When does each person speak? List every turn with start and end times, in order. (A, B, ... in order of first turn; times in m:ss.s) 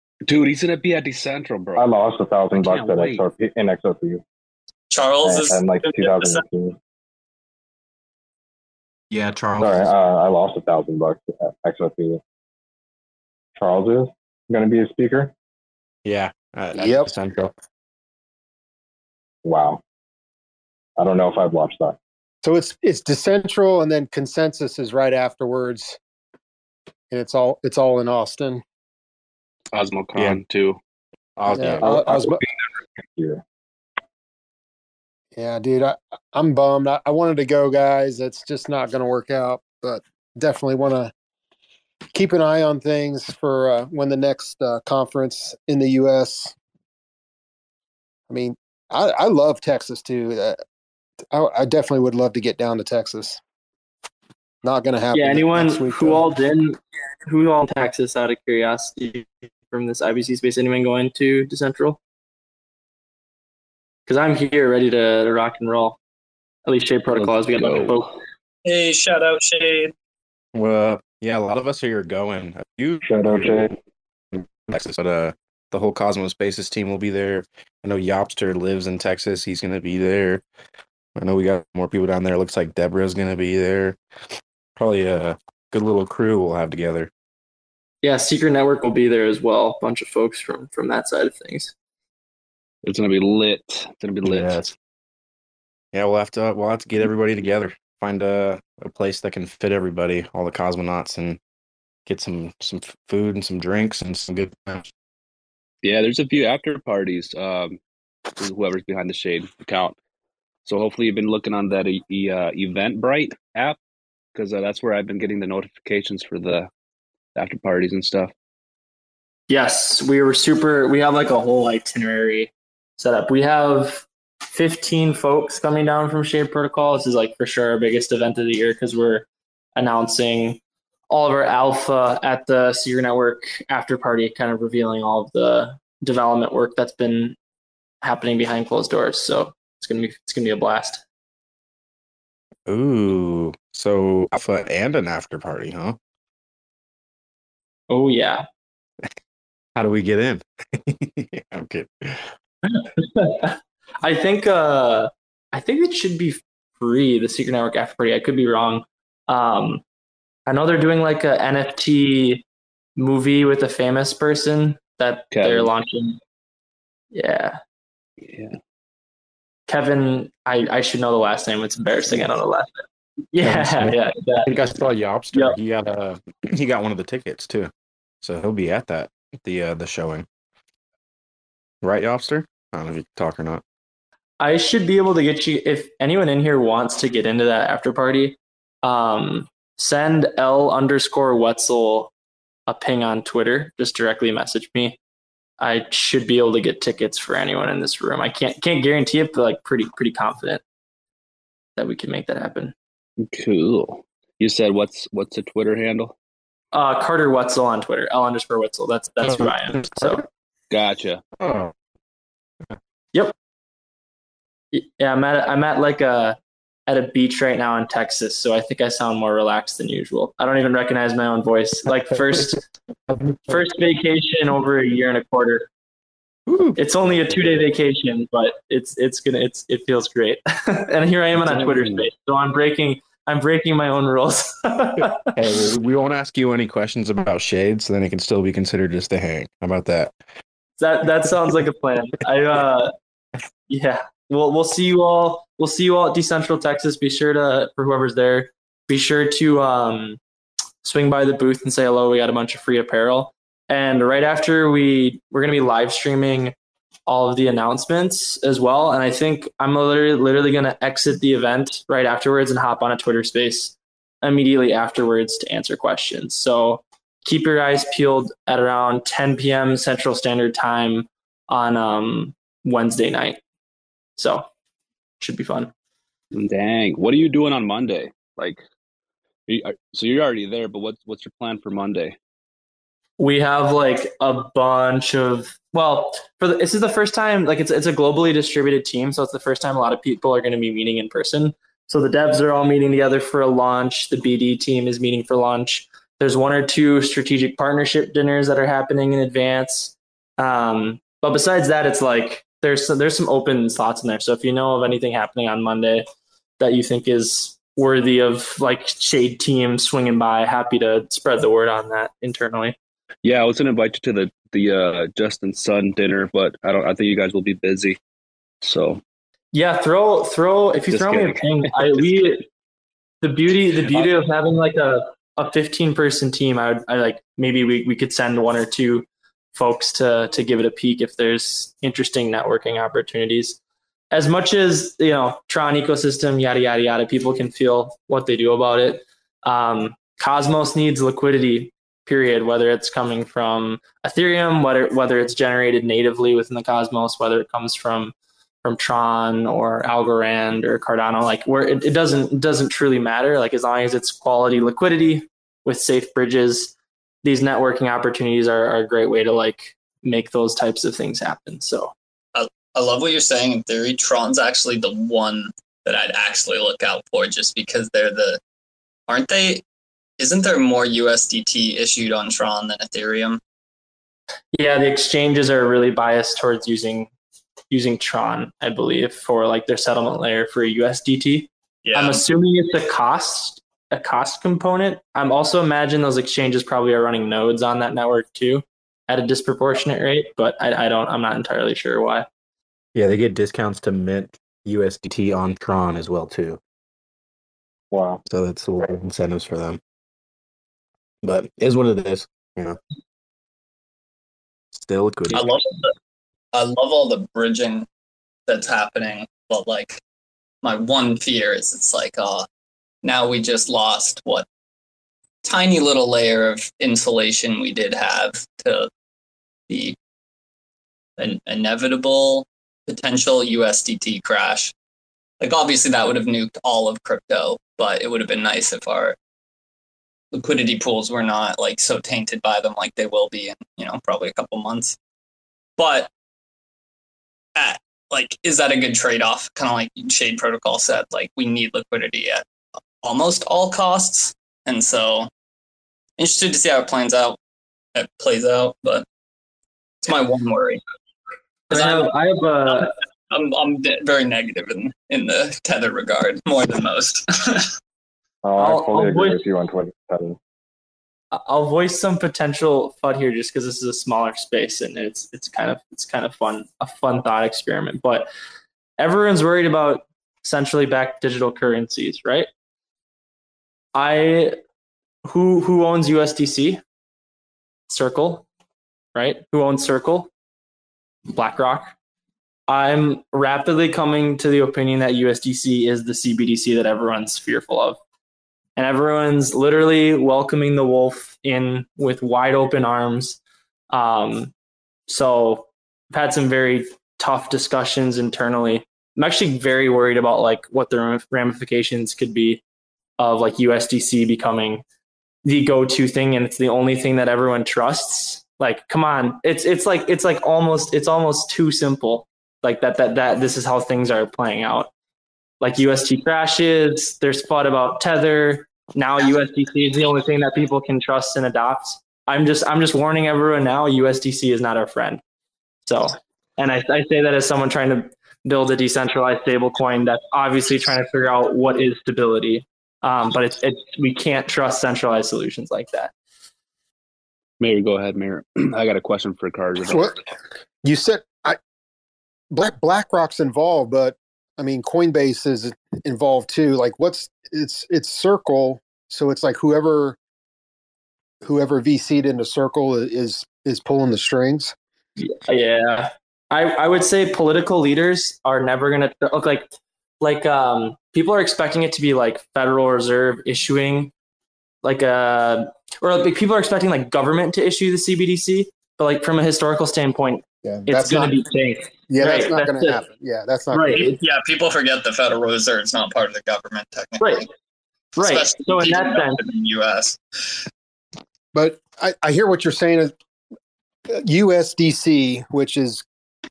0:00.2-0:01.9 A
0:01.8-0:04.2 B
0:02.5-0:03.3 A
0:04.9-0:06.4 C
0:05.2-0:06.8 B
0:09.1-0:09.9 D
0:09.6-0:12.2 B
0:13.6-0:15.3 B
0:16.0-0:17.5 D
0:19.4-0:19.8 B
0:21.0-0:22.0 B
0:22.4-0:26.0 E
0:27.1-0:28.6 E
0:29.7-0:30.8 A
0:31.4-0:32.3 D
0:31.6-0:32.4 E
0:31.8-0:33.4 B
0:35.4-0:41.1 E
0:42.1-0:46.5 E
0:48.3-0:50.6 E
0:51.3-0:53.4 E
0:54.6-0:56.2 E
0:55.1-1:02.0 F
1:04.1-1:06.0 F
1:06.7-1:08.1 F
1:07.2-1:08.1 A
1:08.6-1:09.9 C
1:10.5-1:13.7 D
1:13.0-1:13.8 B
1:14.3-1:20.4 D
1:21.2-1:24.0 D
1:24.8-1:27.1 D
1:28.0-1:31.7 F
1:32.8-1:34.7 A
1:34.3-1:34.7 D
1:35.9-1:41.4 D
1:42.1-1:44.9 D
1:45.8-1:47.8 A
1:48.4-1:50.0 A
1:50.7-1:53.8 A
1:54.4-1:56.7 A
1:57.4-1:58.3 A
1:59.5-2:10.6 F
2:11.1-2:17.4 F
2:18.0-2:21.0 F
2:22.7-2:26.0 D
2:27.9-2:28.5 F
2:29.8-2:32.3 D
2:32.7-2:39.8 F
2:40.5-2:42.4 F
2:43.0-2:46.2 F
2:45.3-2:45.7 A
2:47.1-2:47.6 F
2:48.2-2:48.6 A
2:49.7-2:54.5 F
2:53.4-2:57.7 D
2:58.2-3:00.3 D
3:01.8-3:03.6 D
3:04.4-3:12.1 F
3:12.7-3:15.0 F
3:15.6-3:20.6 F
3:21.8-3:22.7 F
3:23.2-3:26.1 A
3:26.7-3:30.2 F
3:29.3-3:30.2 D
3:30.7-3:31.2 A
3:31.4-3:31.7 D
3:34.7-3:42.6 F
3:43.1-3:43.5 D
3:43.5-3:45.7 F
3:46.5-3:47.5 D
3:46.8-3:55.4 F
3:51.4-3:52.0 D
3:55.4-4:00.2 D
4:00.8-4:02.9 F
4:03.7-4:10.2 F
4:10.8-4:16.6 F
4:17.1-4:33.4 F
4:34.2-4:34.5 F
4:35.2-4:35.7 F
4:36.3-4:38.6 A
4:39.5-4:42.2 A
4:43.2-5:06.1 F
5:06.6-5:12.8 F
5:13.2-5:18.0 A
5:18.6-5:19.0 A
5:19.5-5:22.4 F
5:20.9-5:22.3 A
5:23.2-5:33.6 F
5:23.8-5:24.1 A
5:34.1-5:48.1 F
5:48.6-6:01.9 F
6:02.3-6:08.4 C
6:09.1-6:09.6 C
6:10.2-6:13.4 C
6:14.5-6:17.1 F
6:17.7-6:32.3 F
6:21.8-6:22.2 C
6:33.0-6:36.6 D
6:37.9-6:38.2 B
6:38.3-6:39.8 D
6:41.2-6:42.8 D
6:44.8-6:45.4 D
6:45.3-6:45.9 C
6:46.5-6:47.9 C
6:48.5-6:50.0 C
6:50.6-6:52.5 C
6:53.0-6:54.5 C
6:55.4-6:58.9 C
6:59.7-7:00.0 C
7:01.2-7:04.7 C
7:05.4-7:09.2 C
7:10.3-7:15.0 C
7:15.8-7:16.1 C
7:17.6-7:22.4 C
7:23.0-7:25.3 C
7:26.2-7:27.4 C
7:28.0-7:29.0 C
7:30.0-7:30.8 C
7:31.7-7:32.1 C
7:31.7-7:32.9 F
7:32.7-7:37.7 C
7:38.4-7:40.4 B
7:38.6-7:39.4 F
7:41.3-7:48.3 F
7:49.0-7:52.5 F
7:54.0-7:54.6 F
7:55.2-7:56.8 F
7:57.9-7:58.5 F
7:59.2-8:00.3 F
8:01.3-8:01.9 F
8:02.7-8:08.0 F
8:08.8-8:13.4 F
8:13.9-8:14.5 F
8:15.1-8:22.6 F
8:23.2-8:24.8 F
8:25.4-8:34.9 F
8:35.6-8:45.2 F
8:45.9-8:56.1 F
8:57.6-9:00.2 A
8:59.8-9:00.2 E
9:00.8-9:01.6 E
9:02.5-9:10.2 E
9:11.4-9:14.7 E
9:15.2-9:19.7 F
9:20.2-9:24.1 F
9:24.8-9:33.0 F
9:30.6-9:31.4 E
9:32.1-9:34.2 E
9:33.7-9:34.1 F
9:33.9-9:37.5 C
9:37.2-9:37.5 F
9:38.2-9:39.4 F
9:38.2-9:40.2 C
9:41.5-9:43.1 E
9:44.1-9:46.0 E